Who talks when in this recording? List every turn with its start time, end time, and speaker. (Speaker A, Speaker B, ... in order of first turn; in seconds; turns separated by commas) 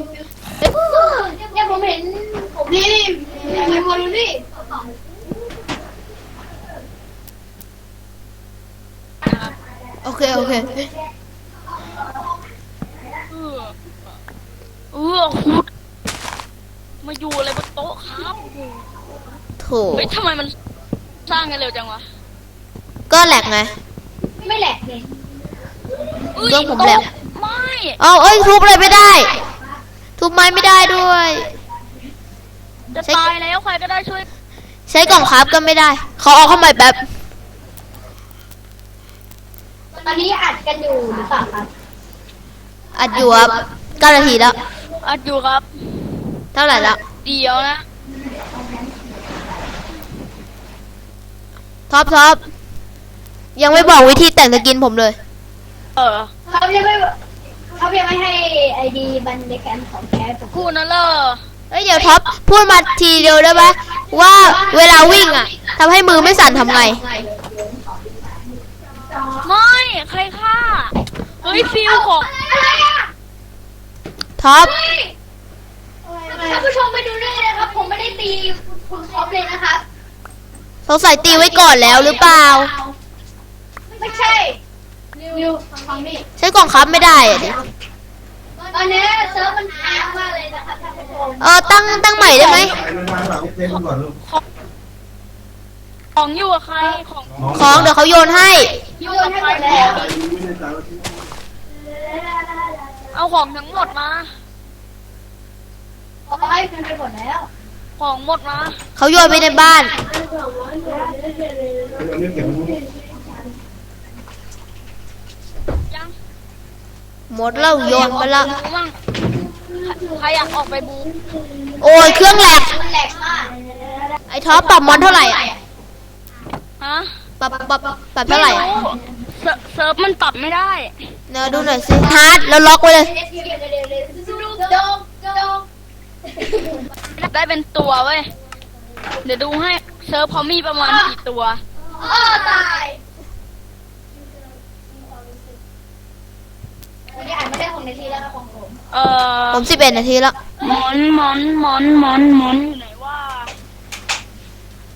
Speaker A: 0.8-4.4, Speaker B: 1.3-1.6, Speaker B: 3.2-3.9, Speaker C: 9.2-9.5, Speaker D: 10.0-10.8, Speaker A: 10.3-10.8, Speaker C: 13.3-13.8, Speaker C: 14.9-15.7, Speaker C: 17.0-18.5, Speaker D: 19.6-20.1, Speaker C: 19.9-20.5, Speaker C: 21.3-22.1, Speaker D: 23.1-23.8, Speaker A: 24.4-25.1, Speaker C: 26.2-28.0, Speaker D: 26.4-27.1, Speaker D: 28.0-29.4, Speaker A: 28.6-29.5, Speaker D: 30.2-31.6, Speaker C: 32.9-34.3, Speaker D: 34.9-37.0, Speaker A: 40.0-41.7, Speaker D: 43.0-44.5, Speaker A: 43.1-44.7, Speaker C: 45.0-46.1, Speaker D: 46.5-47.0, Speaker C: 47.1-47.8, Speaker A: 48.2-49.4, Speaker D: 51.9-52.4, Speaker D: 53.6-55.2, Speaker C: 56.0-56.3, Speaker A: 56.5-57.2, Speaker A: 57.8-60.7, Speaker C: 60.5-61.4, Speaker D: 61.7-67.0, Speaker A: 62.0-62.2, Speaker A: 62.8-63.8, Speaker A: 64.3-69.5, Speaker C: 69.4-72.3, Speaker A: 71.4-73.1, Speaker D: 74.4-74.8, Speaker A: 74.6-75.1, Speaker A: 76.3-79.8, Speaker D: 80.9-82.7, Speaker A: 81.2-82.7, Speaker A: 84.0-84.6, Speaker B: 85.2-86.0, Speaker A: 85.3-86.2, Speaker D: 86.4-87.6, Speaker A: 88.7-92.7, Speaker B: 88.7-90.5, Speaker D: 91.4-92.8, Speaker C: 92.2-92.8, Speaker C: 93.5-94.4, Speaker C: 96.2-97.7, Speaker D: 97.5-98.7, Speaker C: 99.0-100.2, Speaker A: 99.0-100.2, Speaker C: 103.1-104.3, Speaker A: 106.3-107.5, Speaker C: 108.0-108.8, Speaker D: 109.0-110.0, Speaker B: 110.1-112.7, Speaker C: 115.9-116.1, Speaker D: 117.3-118.5, Speaker C: 117.9-119.0, Speaker A: 117.9-118.2, Speaker C: 119.9-121.2, Speaker D: 121.8-122.7, Speaker A: 121.9-123.6, Speaker D: 124.3-125.4, Speaker A: 124.5-125.6, Speaker C: 126.8-127.1, Speaker D: 127.4-128.7, Speaker C: 128.3-130.9, Speaker D: 131.3-133.1, Speaker A: 133.1-135.7, Speaker C: 137.1-138.3, Speaker C: 139.2-141.6, Speaker A: 142.0-143.0, Speaker A: 147.1-148.8, Speaker C: 148.9-149.7, Speaker D: 149.5-150.4, Speaker C: 150.6-153.5